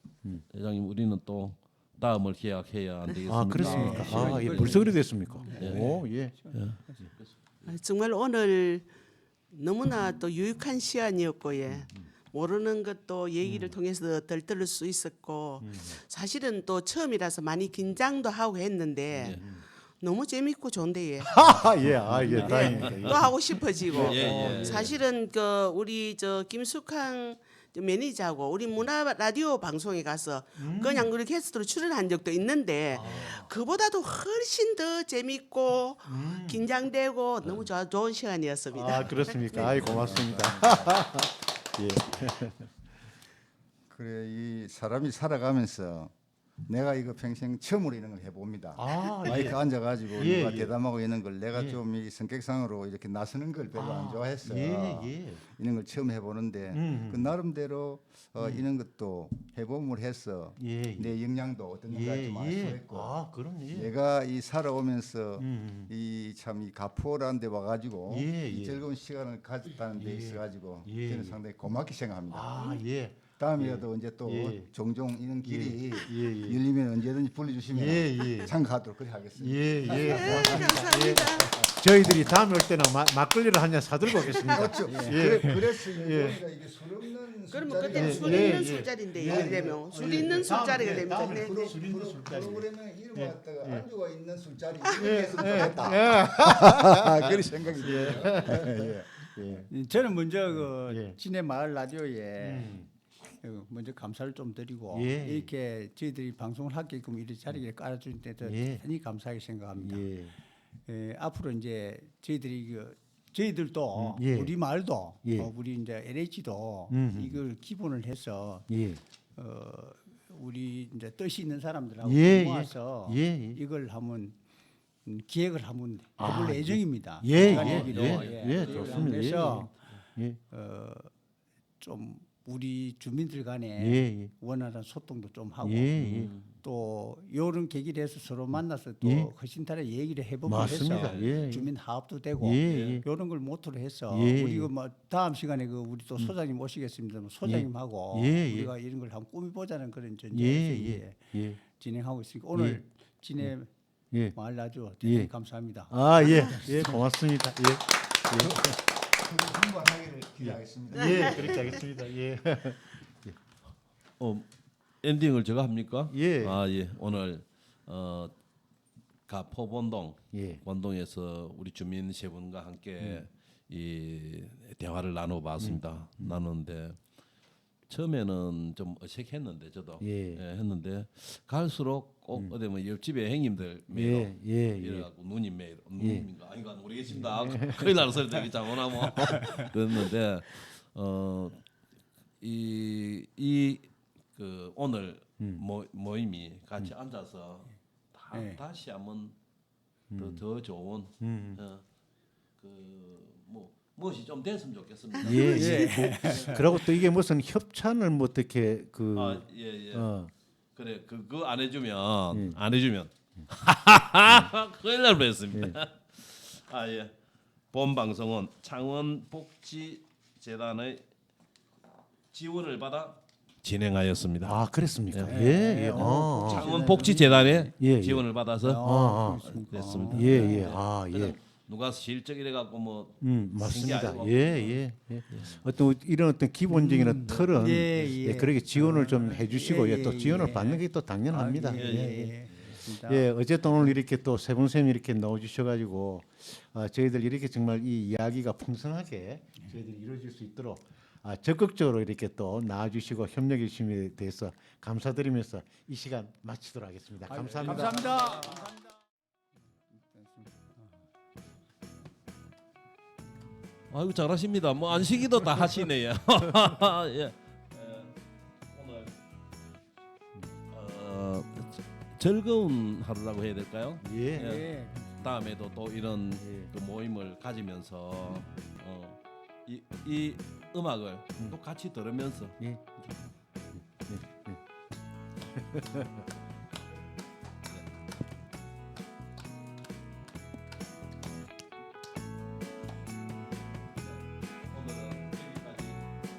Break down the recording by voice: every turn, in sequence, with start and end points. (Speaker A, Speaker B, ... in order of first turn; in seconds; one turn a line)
Speaker A: 0.5-4.9
Speaker B: 3.3-7.1
Speaker C: 3.6-7.1
Speaker A: 5.6-6.0
Speaker A: 6.5-7.7
Speaker D: 7.6-8.9
Speaker D: 9.5-21.4
Speaker B: 15.6-16.0
Speaker A: 19.2-19.4
Speaker B: 21.2-24.9
Speaker A: 22.1-23.3
Speaker D: 22.2-40.1
Speaker A: 23.9-24.9
Speaker B: 30.6-31.1
Speaker B: 32.9-33.5
Speaker B: 36.1-36.6
Speaker B: 38.7-42.7
Speaker E: 39.5-41.0
Speaker E: 43.9-46.1
Speaker E: 46.6-63.1
Speaker B: 48.8-49.6
Speaker B: 50.1-50.8
Speaker B: 51.5-51.8
Speaker B: 53.8-55.4
Speaker B: 56.7-57.3
Speaker B: 58.4-58.6
Speaker B: 60.6-61.1
Speaker B: 61.9-63.9
Speaker E: 63.7-72.8
Speaker B: 65.4-65.9
Speaker B: 68.1-68.8
Speaker B: 70.0-71.4
Speaker B: 72.3-74.7
Speaker E: 73.3-80.9
Speaker B: 75.4-76.6
Speaker B: 77.7-78.5
Speaker B: 79.4-86.4
Speaker D: 79.8-81.6
Speaker E: 84.1-99.7
Speaker C: 84.9-85.2
Speaker D: 87.5-91.7
Speaker B: 87.9-93.9
Speaker B: 94.9-99.7
Speaker C: 99.7-102.8
Speaker B: 100.5-101.2
Speaker B: 102.4-102.9
Speaker C: 103.4-110.1
Speaker B: 104.9-105.5
Speaker B: 108.4-108.8
Speaker B: 109.8-110.3
Speaker C: 110.9-118.7
Speaker B: 113.9-114.6
Speaker B: 115.2-115.5
Speaker B: 116.9-117.4
Speaker B: 118.7-119.0
Speaker C: 119.3-124.4
Speaker B: 122.0-123.6
Speaker C: 125.0-129.7
Speaker B: 126.2-130.4
Speaker A: 127.3-129.8
Speaker C: 130.5-131.1
Speaker C: 131.8-153.7
Speaker B: 133.8-134.3
Speaker B: 135.6-136.3
Speaker A: 136.0-136.5
Speaker B: 139.0-139.3
Speaker B: 140.4-141.7
Speaker A: 140.7-141.4
Speaker B: 142.4-143.1
Speaker A: 142.6-143.0
Speaker B: 144.1-144.7
Speaker B: 147.4-148.7
Speaker B: 150.3-151.6
Speaker B: 152.5-152.8
Speaker B: 154.1-154.4
Speaker C: 154.3-157.0
Speaker B: 155.0-155.3
Speaker B: 155.9-158.8
Speaker E: 158.4-161.8
Speaker B: 160.4-163.4
Speaker A: 164.2-164.5
Speaker A: 165.0-168.3
Speaker B: 166.1-166.6
Speaker A: 169.3-177.0
Speaker B: 170.3-170.6
Speaker B: 173.0-173.3
Speaker B: 175.6-176.4
Speaker A: 177.9-191.6
Speaker B: 180.0-180.4
Speaker B: 183.9-185.1
Speaker B: 186.0-186.3
Speaker B: 187.1-188.4
Speaker C: 189.2-189.7
Speaker A: 192.4-199.3
Speaker C: 198.3-198.6
Speaker B: 200.1-200.4
Speaker A: 200.1-201.8
Speaker B: 201.2-201.6
Speaker A: 202.6-206.9
Speaker B: 205.2-210.3
Speaker C: 205.2-206.8
Speaker A: 209.1-210.1
Speaker A: 210.8-217.1
Speaker B: 212.3-212.6
Speaker B: 215.5-215.8
Speaker A: 217.7-221.0
Speaker A: 222.3-225.4
Speaker B: 224.4-227.1
Speaker C: 225.2-227.7
Speaker A: 225.9-235.6
Speaker B: 227.8-229.5
Speaker C: 228.6-230.7
Speaker B: 230.1-231.4
Speaker B: 233.2-258.4
Speaker C: 236.7-243.3
Speaker A: 237.3-237.8
Speaker A: 241.7-242.3
Speaker C: 257.3-258.9
Speaker A: 257.3-258.5
Speaker C: 260.0-260.9
Speaker A: 263.9-268.2
Speaker A: 268.7-269.1
Speaker A: 270.7-282.6
Speaker B: 274.0-274.6
Speaker C: 274.4-275.1
Speaker B: 276.4-276.7
Speaker B: 282.6-282.9
Speaker B: 283.8-284.6
Speaker B: 285.5-286.3
Speaker A: 294.0-296.1